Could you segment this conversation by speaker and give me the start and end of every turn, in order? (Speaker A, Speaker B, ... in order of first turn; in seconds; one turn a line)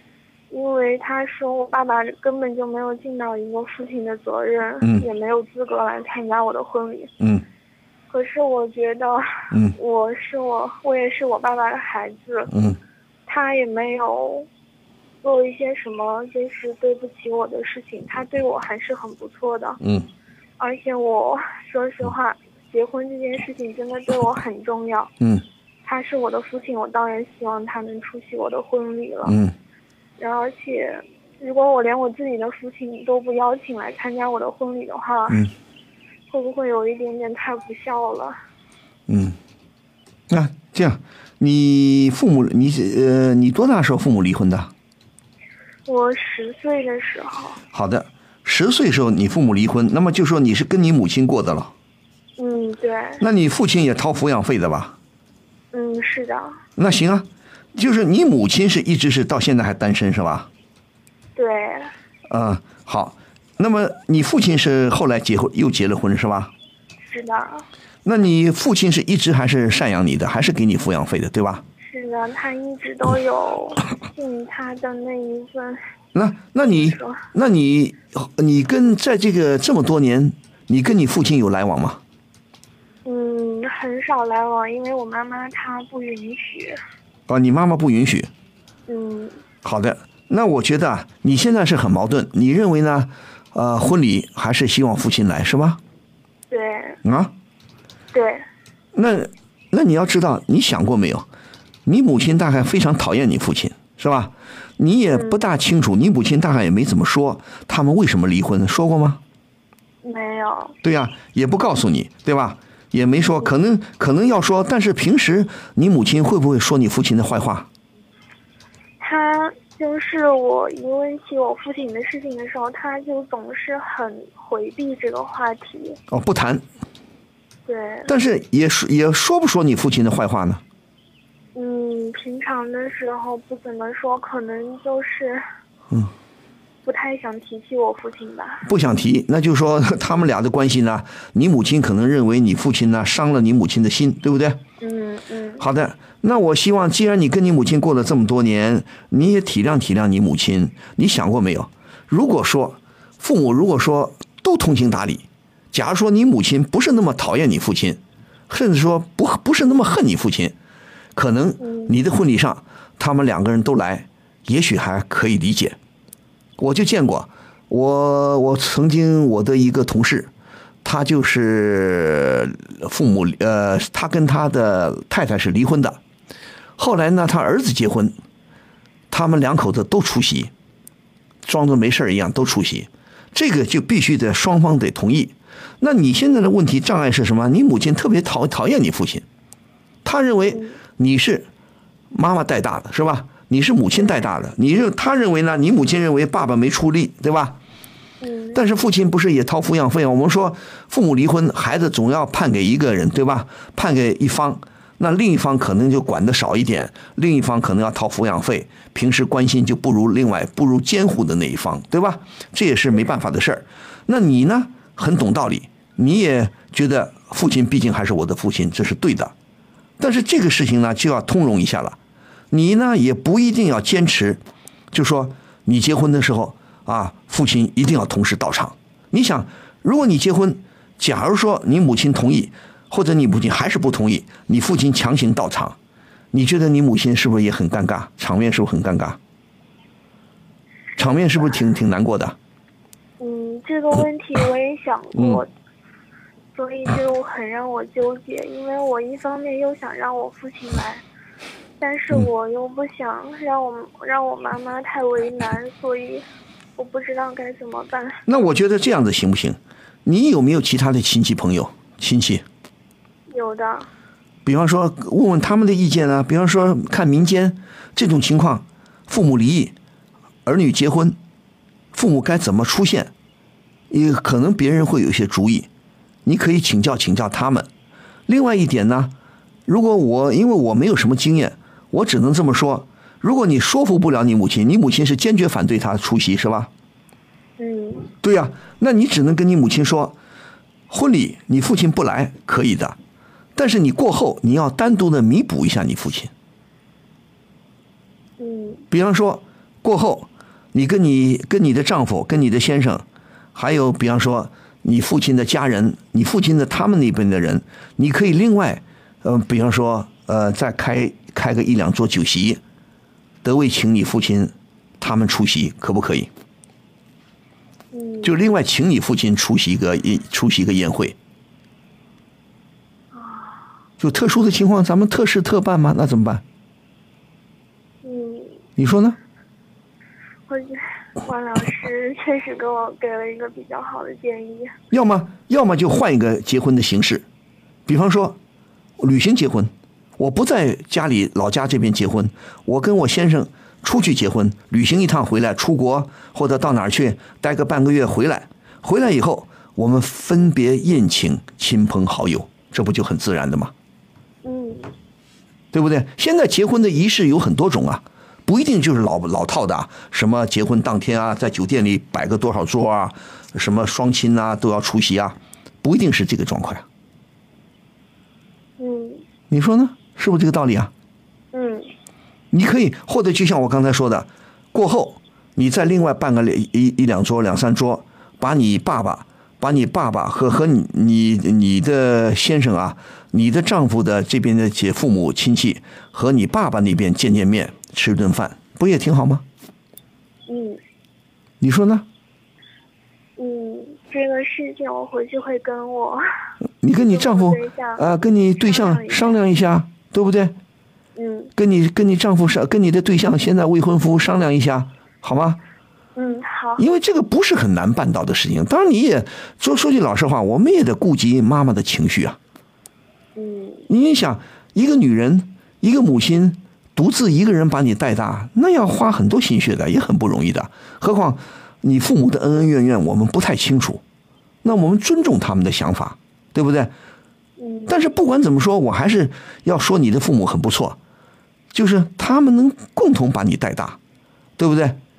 Speaker A: 0.5-7.1
Speaker B: 7.2-7.5
Speaker A: 8.1-12.5
Speaker B: 9.5-9.8
Speaker B: 12.5-12.8
Speaker A: 13.3-14.5
Speaker A: 15.2-19.8
Speaker B: 19.8-20.1
Speaker A: 20.6-25.1
Speaker A: 25.8-29.4
Speaker B: 29.2-29.6
Speaker A: 30.2-35.5
Speaker A: 36.3-38.4
Speaker B: 39.1-39.4
Speaker B: 40.3-44.7
Speaker A: 45.9-47.6
Speaker B: 47.7-51.7
Speaker A: 52.4-53.2
Speaker B: 53.2-55.0
Speaker A: 55.7-56.6
Speaker B: 56.8-60.5
Speaker A: 61.4-61.9
Speaker B: 62.3-66.5
Speaker A: 67.0-67.7
Speaker B: 68.0-71.6
Speaker A: 71.8-75.8
Speaker B: 76.2-82.0
Speaker A: 76.6-77.2
Speaker A: 83.0-86.8
Speaker B: 87.3-88.3
Speaker A: 88.9-89.4
Speaker B: 89.6-95.8
Speaker A: 96.5-97.0
Speaker B: 97.0-97.3
Speaker A: 98.1-98.4
Speaker B: 98.9-101.3
Speaker B: 101.8-109.2
Speaker A: 110.0-110.8
Speaker B: 110.8-117.7
Speaker A: 119.0-126.0
Speaker B: 126.1-126.6
Speaker A: 127.7-128.1
Speaker B: 128.1-130.6
Speaker A: 131.6-135.4
Speaker A: 136.8-138.7
Speaker B: 138.7-144.6
Speaker A: 144.8-145.7
Speaker B: 145.6-160.6
Speaker B: 161.2-165.8
Speaker A: 161.6-161.9
Speaker B: 166.6-170.3
Speaker B: 170.8-176.0
Speaker B: 176.8-178.2
Speaker B: 179.1-180.5
Speaker B: 181.4-189.2
Speaker B: 190.1-191.5
Speaker B: 192.1-197.6
Speaker A: 198.2-198.6
Speaker B: 198.5-219.3
Speaker B: 220.0-222.0
Speaker B: 222.5-224.4
Speaker B: 224.9-235.8
Speaker B: 236.3-239.2
Speaker A: 240.9-241.4
Speaker B: 241.0-242.4
Speaker A: 243.2-245.5
Speaker B: 245.2-245.4
Speaker A: 246.5-251.0
Speaker A: 251.8-258.2
Speaker B: 258.3-262.4
Speaker A: 263.3-263.9
Speaker B: 264.4-269.8
Speaker B: 270.4-271.2
Speaker B: 271.9-273.1
Speaker B: 273.9-275.7
Speaker B: 276.2-277.7
Speaker B: 278.3-279.1
Speaker B: 279.7-286.7
Speaker A: 287.6-288.1
Speaker B: 288.2-290.2
Speaker B: 290.9-293.0
Speaker B: 293.6-296.3
Speaker A: 298.4-298.8
Speaker B: 298.9-312.6
Speaker B: 313.4-316.3
Speaker A: 317.9-318.4
Speaker B: 318.2-321.2
Speaker A: 323.1-323.6
Speaker B: 324.0-326.4
Speaker A: 328.0-328.6
Speaker B: 328.8-329.2
Speaker A: 330.5-334.7
Speaker B: 334.9-337.2
Speaker B: 337.9-338.4
Speaker B: 339.0-353.7
Speaker A: 354.4-354.9
Speaker B: 355.7-366.9
Speaker A: 368.8-369.2
Speaker B: 369.5-370.9
Speaker A: 371.5-371.9
Speaker B: 372.5-389.4
Speaker A: 390.5-390.8
Speaker B: 391.6-392.1
Speaker A: 393.4-396.2
Speaker B: 396.8-400.6
Speaker A: 397.0-398.1
Speaker A: 398.6-399.4
Speaker A: 401.1-401.5
Speaker B: 401.6-405.6
Speaker A: 406.1-406.8
Speaker B: 406.8-412.4
Speaker A: 413.4-413.9
Speaker B: 413.9-424.0
Speaker B: 424.6-426.9
Speaker A: 427.6-428.0
Speaker B: 427.9-431.0
Speaker B: 431.7-434.0
Speaker B: 434.6-435.0